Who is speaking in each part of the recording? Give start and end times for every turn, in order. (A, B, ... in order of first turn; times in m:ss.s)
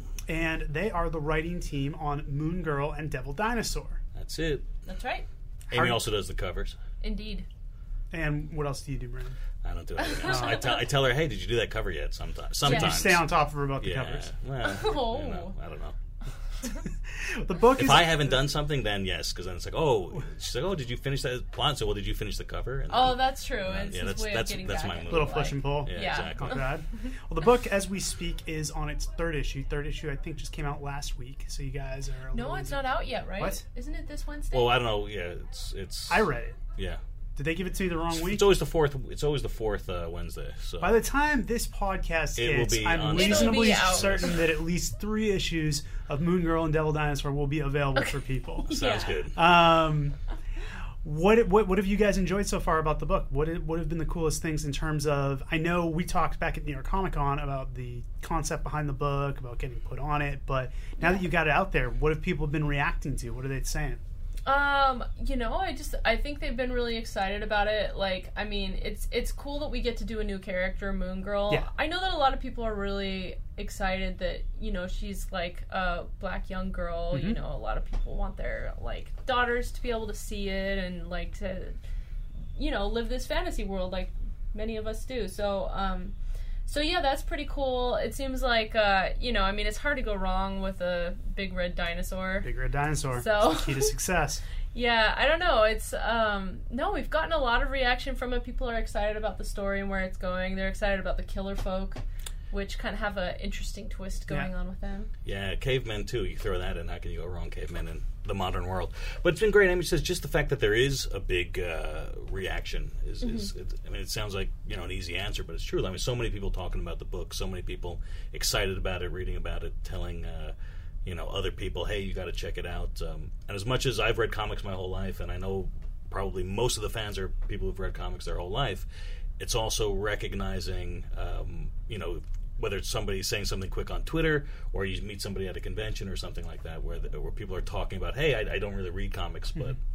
0:00.3-0:04.0 A
0:04.1-0:04.6 B
0:04.8-0:05.3 C
0:05.7-0:06.8 B
0:05.7-0:06.0 A
0:07.0-0:07.5 C
0:08.1-0:09.4 A
0:09.6-0:13.2 B
0:10.1-0:10.7 C
0:10.2-0:10.7 A
0:12.6-0:14.3 A
0:12.6-0:13.1 C
0:13.8-0:16.0 B
0:14.6-0:15.5 C
0:16.6-0:18.4 A
0:17.7-0:26.7 B
0:22.9-0:26.8 C
0:25.1-0:33.6 A
0:32.3-0:34.8 C
0:34.5-0:37.0 B
0:36.1-0:36.6 A
0:37.4-0:38.5 A
0:38.1-0:41.0 B
0:40.8-0:50.2 A
0:42.4-0:44.5 B
0:43.1-0:44.4 C
0:48.6-0:49.3 C
0:48.7-0:49.4 B
0:51.0-1:04.0 A
1:01.0-1:01.3 C
1:04.4-1:21.8 C
1:17.1-1:17.4 A
1:22.5-1:26.1 C
1:26.7-1:32.5 C
1:32.4-1:34.4 A
1:33.1-1:33.9 C
1:34.7-1:45.1 C
1:45.2-2:08.8 B
1:53.2-1:53.5 C
2:09.4-2:19.8 B